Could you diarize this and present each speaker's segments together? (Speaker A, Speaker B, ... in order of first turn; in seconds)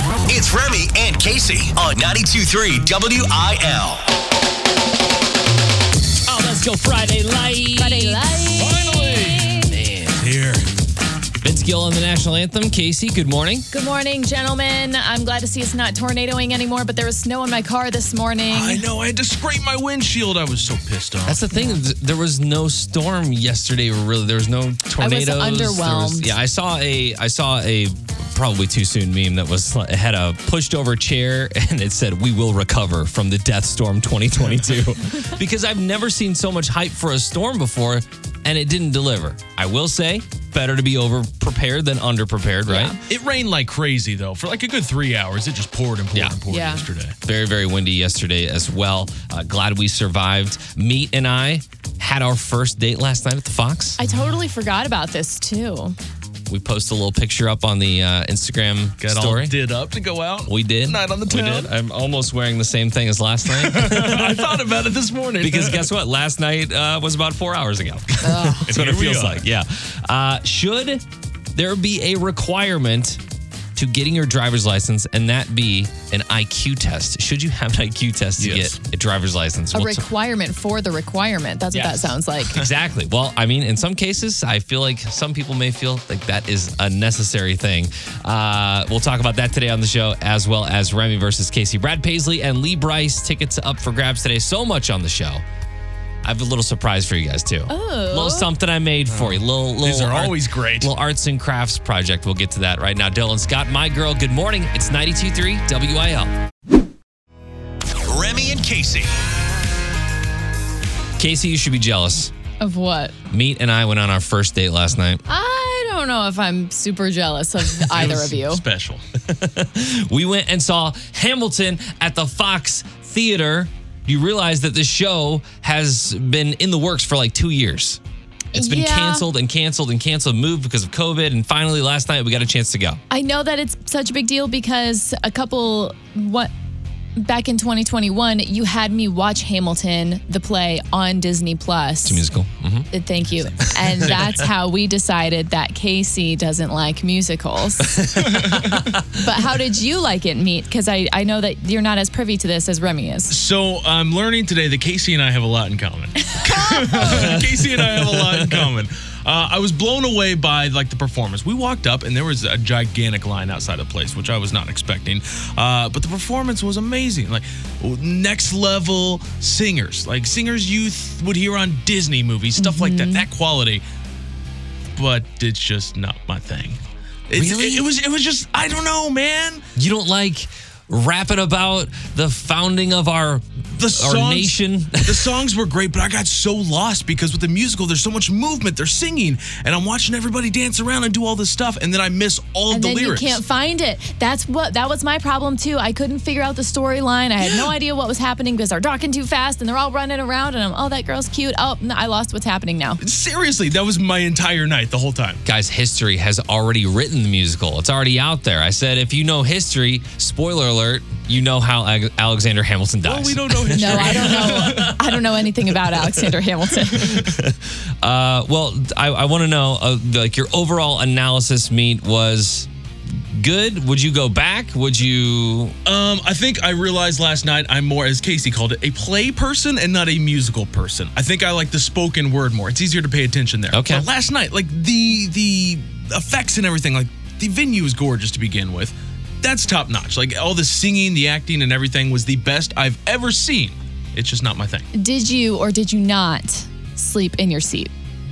Speaker A: 0.3-4.0, 108.0-109.2
Speaker B: 6.2-8.7, 9.7-10.2, 11.4-13.7, 21.2-43.0, 47.2-54.0, 56.5-59.5, 60.5-64.6, 65.4-73.2, 73.8-80.0, 81.7-95.4, 96.2-106.4, 111.2-112.3, 113.3-115.2, 119.2-128.0, 128.5-133.0, 142.0-142.9, 143.6-144.3, 147.8-149.0, 157.0-158.7, 177.3-177.9, 179.8-185.4, 205.4-215.0, 216.9-225.8, 233.7-234.1
Speaker C: 7.8-9.7, 13.7-18.9, 25.0-26.3, 42.7-43.0, 46.5-46.8, 54.0-56.0, 68.2-68.7, 79.7-82.6, 97.7-98.5, 112.6-113.1, 115.3-118.6, 128.5-129.3, 133.1-136.5, 137.2-142.2, 142.9-148.1, 149.1-153.3, 156.3-157.3, 172.6-173.2, 192.7-203.0, 213.7-217.3, 244.9-247.9
Speaker D: 8.6-9.5, 10.2-10.7, 18.5-21.4, 43.1-47.1, 59.0-61.7, 63.5-65.9, 68.2-69.4, 78.4-78.8, 99.1-100.9, 117.9-119.0, 148.2-148.8, 153.3-173.8, 174.9-179.6, 183.8-193.4, 197.4-197.7, 203.0-205.4, 213.0-215.2, 225.8-244.9